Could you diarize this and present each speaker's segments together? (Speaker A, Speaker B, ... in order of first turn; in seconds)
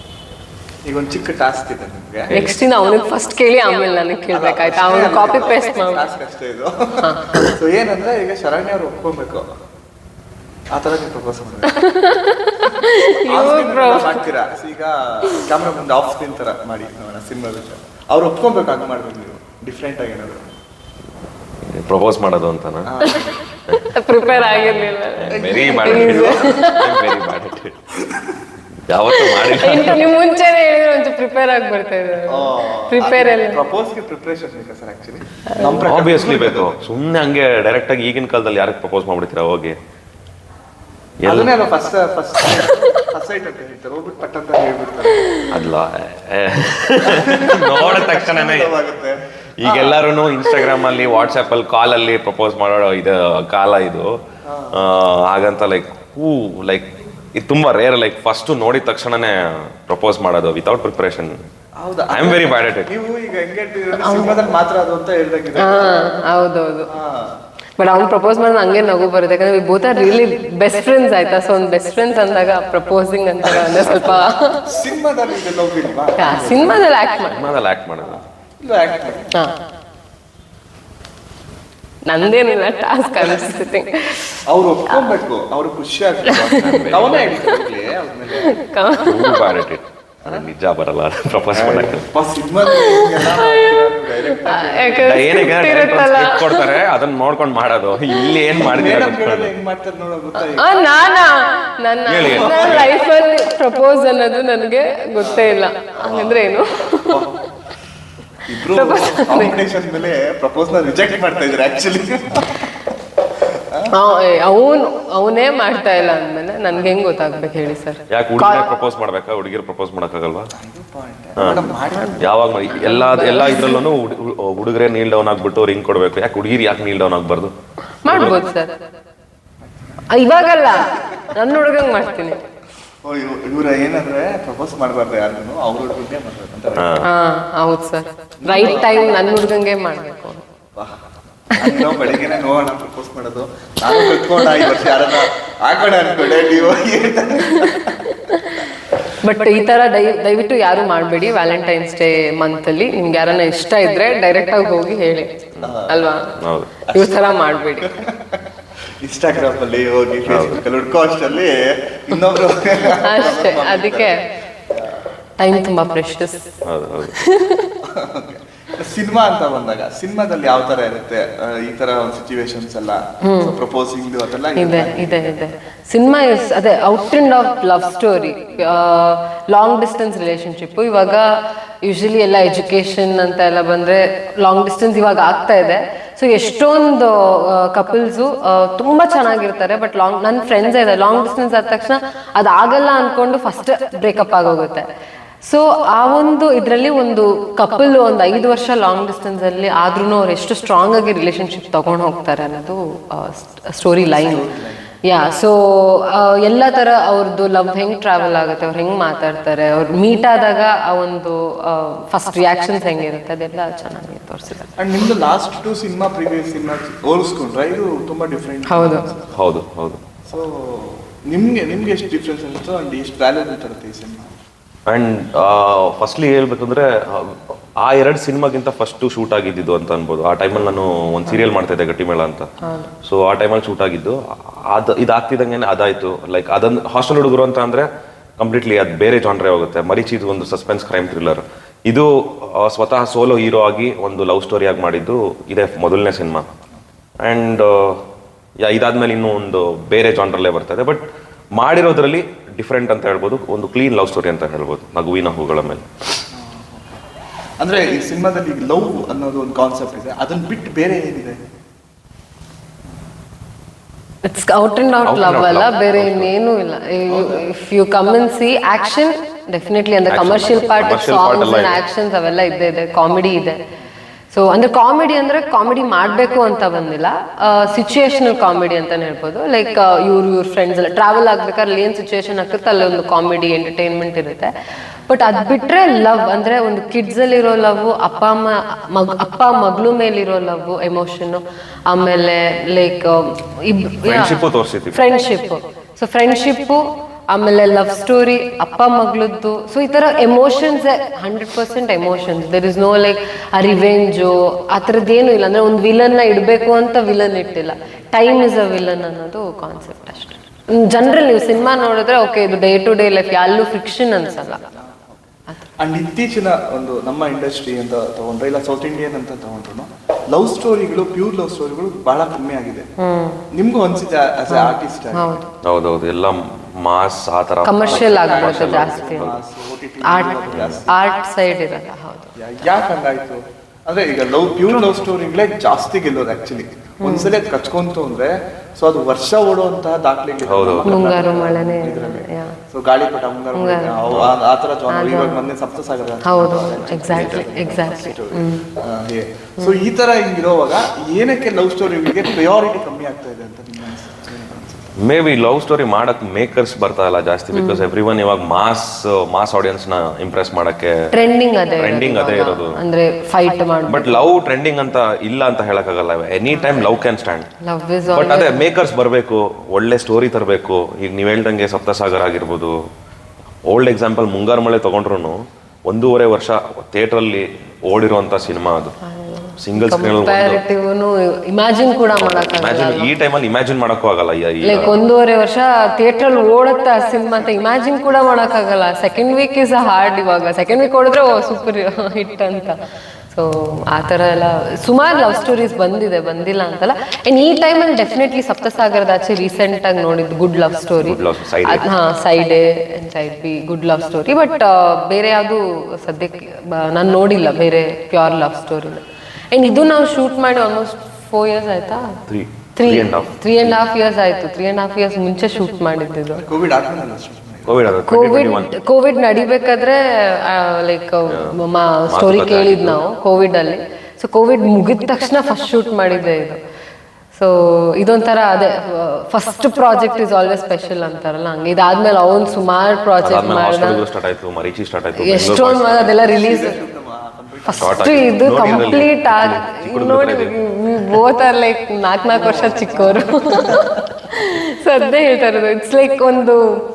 Speaker A: 0.8-2.3, 4.3-9.5, 10.7-11.8, 13.3-20.5, 22.9-23.4, 25.3-26.5, 28.1-28.4, 32.3-36.8, 41.2-45.5, 47.1-50.0, 54.5-54.9, 61.8-66.0, 66.9-67.4, 74.7-76.8, 78.0-79.3, 84.5-88.5, 91.6-95.5, 98.6-100.7, 102.2-102.9, 105.2-106.5, 107.1-107.3, 108.5-112.7, 120.6-122.4, 133.0-137.0, 138.4-139.3, 141.5-148.2, 155.6-156.1, 156.9-157.2, 158.0-158.4, 159.0-164.1, 167.9-175.4, 204.0-205.0, 214.8-219.4, 220.3-224.3, 256.4-257.0, 257.6-261.4, 267.1-267.5, 314.7-322.9, 323.6-325.4, 327.8-330.9, 332.4-354.9, 416.4-417.9, 436.2-439.0, 442.5-443.9
Speaker B: 2.3-6.1, 7.0-7.5, 11.7-14.2, 23.0-27.1, 29.1-33.6, 35.5-35.8, 63.9-64.5, 65.6-66.9, 67.8-74.6, 76.2-77.5, 82.1-85.1, 86.3-86.8, 88.4-89.5, 92.7-93.8, 94.4-96.8, 98.1-98.4, 100.5-107.4, 108.6-109.6, 113.9-118.7, 121.9-123.8, 128.0-128.7, 130.1-132.4, 137.0-140.4, 143.9-144.5, 147.5-148.6, 149.2-155.3, 155.9-156.4, 156.9-158.0, 163.0-164.2, 165.4-166.4, 167.1-167.7, 173.2-173.6, 174.6-181.3, 181.8-194.9, 195.4-204.4, 205.1-214.8, 218.7-219.1, 232.6-232.9, 264.2-273.6, 274.3-284.5, 285.1-314.7, 323.0-323.4, 324.5-325.5, 327.6-329.3, 330.1-332.3, 337.0-337.3, 340.8-342.6, 343.6-344.0, 344.9-345.5, 346.2-348.7, 357.5-357.9, 361.1-364.3, 366.5-367.0, 367.6-368.7, 379.0-383.1, 384.6-392.8, 393.3-412.2, 412.8-416.4, 418.1-426.6, 427.3-434.0, 435.2-436.7, 437.7-446.6
Speaker C: 21.7-22.9, 25.2-27.8, 28.9-30.1, 35.8-39.8, 41.2-41.5, 45.5-48.7, 49.6-54.1, 54.7-61.4, 62.1-62.9, 77.3-78.2, 86.6-87.3, 89.0-92.0, 95.0-99.5, 102.0-102.9, 118.1-120.5, 121.4-121.6, 122.2-127.5, 128.1-128.4, 136.8-137.1, 156.4-156.7, 160.3-160.6, 166.7-167.1, 219.3-220.0, 224.9-232.5, 233.0-237.9, 238.4-246.5, 247.2-248.0, 248.6-251.1, 251.6-255.8, 265.1-266.3, 270.1-271.8, 294.0-295.0, 325.6-329.4, 330.5-330.8, 340.4-341.0, 344.1-344.3, 355.0-361.0, 361.8-362.8, 363.9-367.5, 368.1-372.7, 373.7-378.9, 379.6-380.6, 382.1-385.0, 401.0-401.9, 412.3-413.8, 417.7-418.8, 421.3-423.0, 433.2-436.2, 437.8-441.2